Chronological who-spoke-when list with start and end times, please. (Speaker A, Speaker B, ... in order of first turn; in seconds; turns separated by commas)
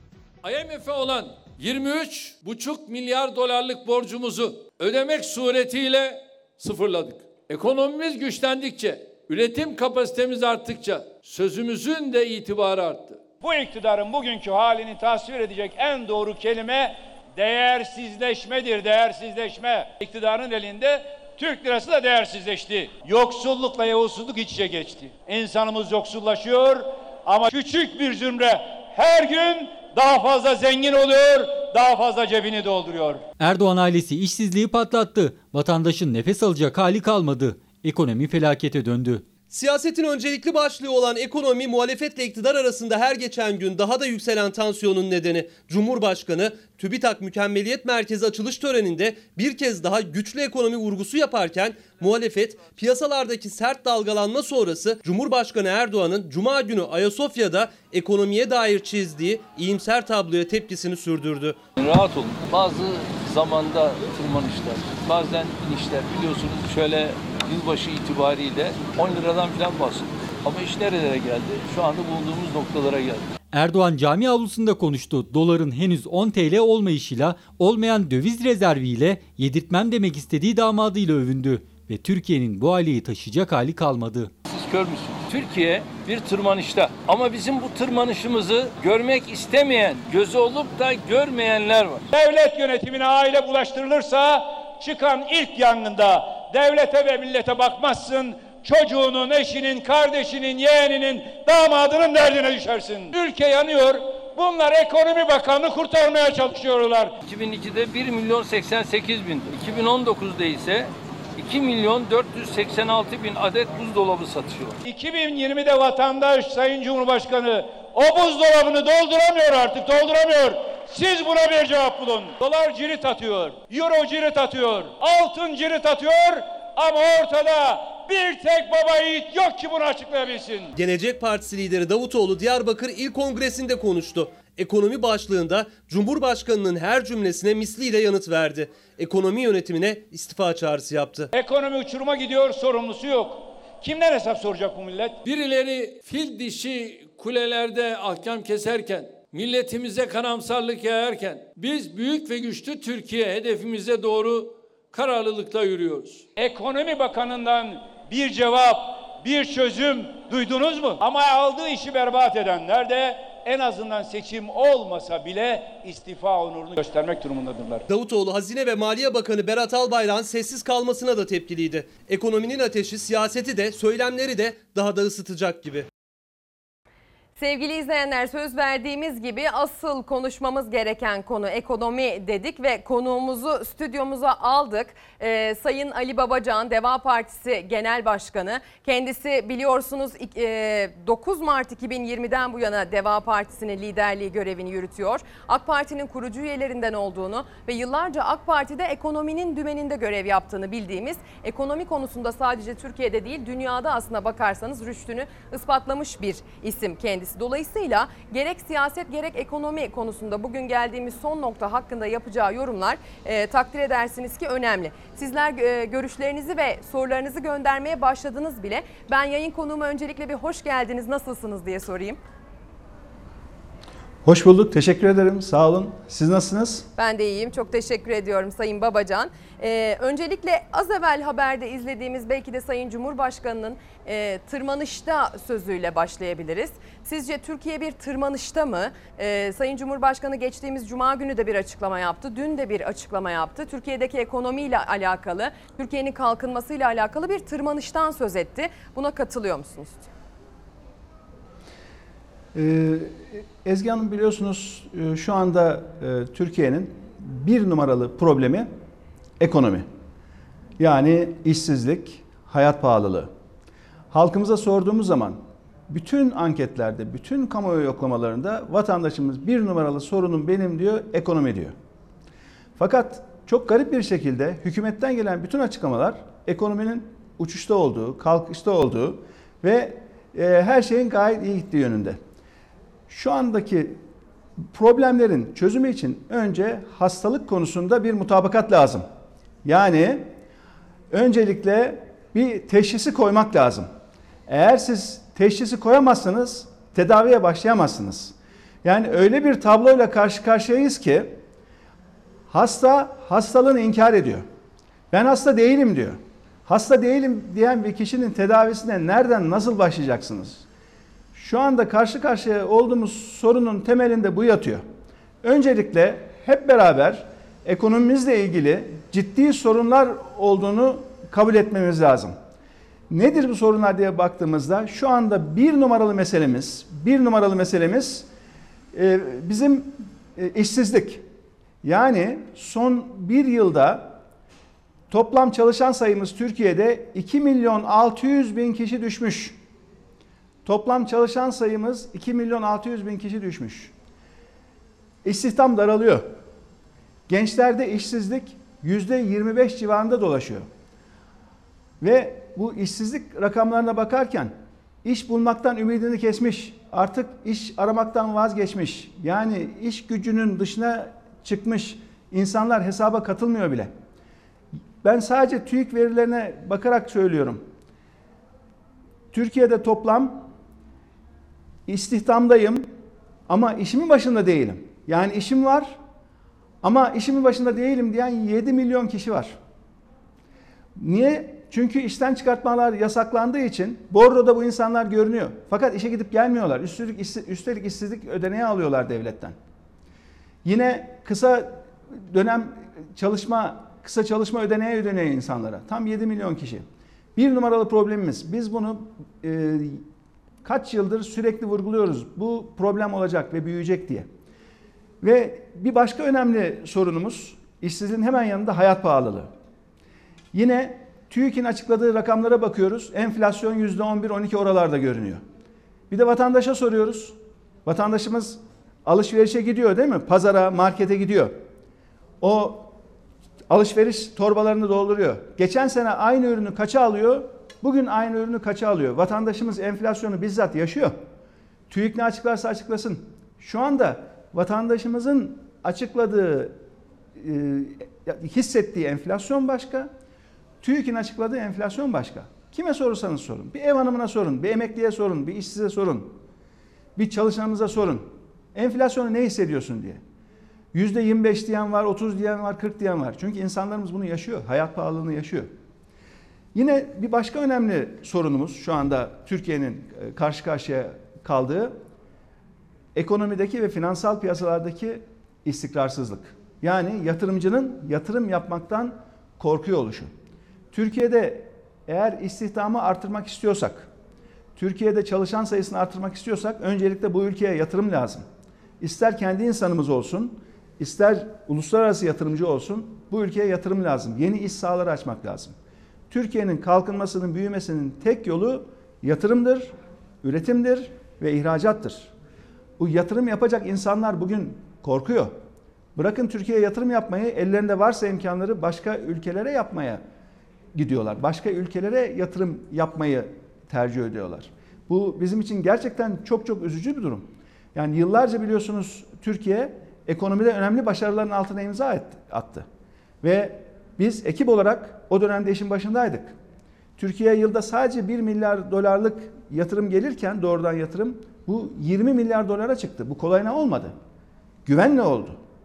Speaker A: 0.4-13.2, Speaker B: 13.4-33.2, Speaker C: 33.4-39.3, Speaker D: 39.5-61.6, Speaker E: 61.8-73.3, Speaker C: 73.5-84.3, Speaker E: 84.5-92.1, Speaker B: 92.1-107.2, Speaker E: 107.2-114.8, Speaker B: 114.8-130.7, Speaker D: 130.7-141.3, Speaker B: 141.3-145.2, Speaker A: 145.2-156.3, Speaker B: 156.4-167.8, Speaker D: 167.9-175.9, Speaker F: 177.4-222.2, Speaker G: 224.2-226.9, Speaker F: 227.0-250.1, Speaker G: 252.6-258.7, Speaker G: 259.4-259.9, Speaker G: 260.8-263.3, Speaker G: 264.1-271.7, Speaker G: 272.8-282.2, Speaker G: 283.1-284.0, Speaker G: 284.7-289.1, Speaker G: 289.6-290.3, Speaker G: 291.1-293.9, Speaker G: 294.5-301.4, Speaker G: 302.5-304.4, Speaker G: 305.1-310.7, Speaker G: 311.4-314.8, Speaker G: 315.4-322.4, Speaker G: 323.1-328.3, Speaker G: 328.9-331.2, Speaker G: 331.8-334.2, Speaker G: 335.1-339.6, Speaker G: 340.6-343.9, Speaker G: 345.2-346.3, Speaker G: 347.3-350.7, Speaker G: 352.0-354.5, Speaker G: 355.0-363.9, Speaker G: 365.0-367.6, Speaker G: 369.3-370.4, Speaker G: 371.9-372.9, Speaker G: 373.5-376.0, Speaker G: 376.8-379.6, Speaker G: 381.0-389.6, Speaker G: 390.6-396.9, Speaker G: 397.4-400.0, Speaker G: 400.6-404.3, Speaker G: 405.2-409.5, Speaker G: 410.5-415.4, Speaker G: 416.1-421.6, Speaker G: 422.4-422.9, Speaker G: 423.7-431.1, Speaker G: 431.9-436.8, Speaker G: 437.4-440.1, Speaker G: 440.8-446.4, Speaker G: 447.2-450.2, Speaker G: 450.9-455.7, Speaker G: 456.7-462.0, Speaker G: 463.1-470.3, Speaker G: 470.9-474.1, Speaker G: 474.8-478.4, Speaker G: 479.0-485.8, Speaker G: 486.3-492.3, Speaker G: 493.0-495.6, Speaker G: 496.2-500.2, Speaker G: 500.9-512.9, Speaker G: 513.4-516.5, Speaker G: 517.2-524.1, Speaker G: 524.9-525.6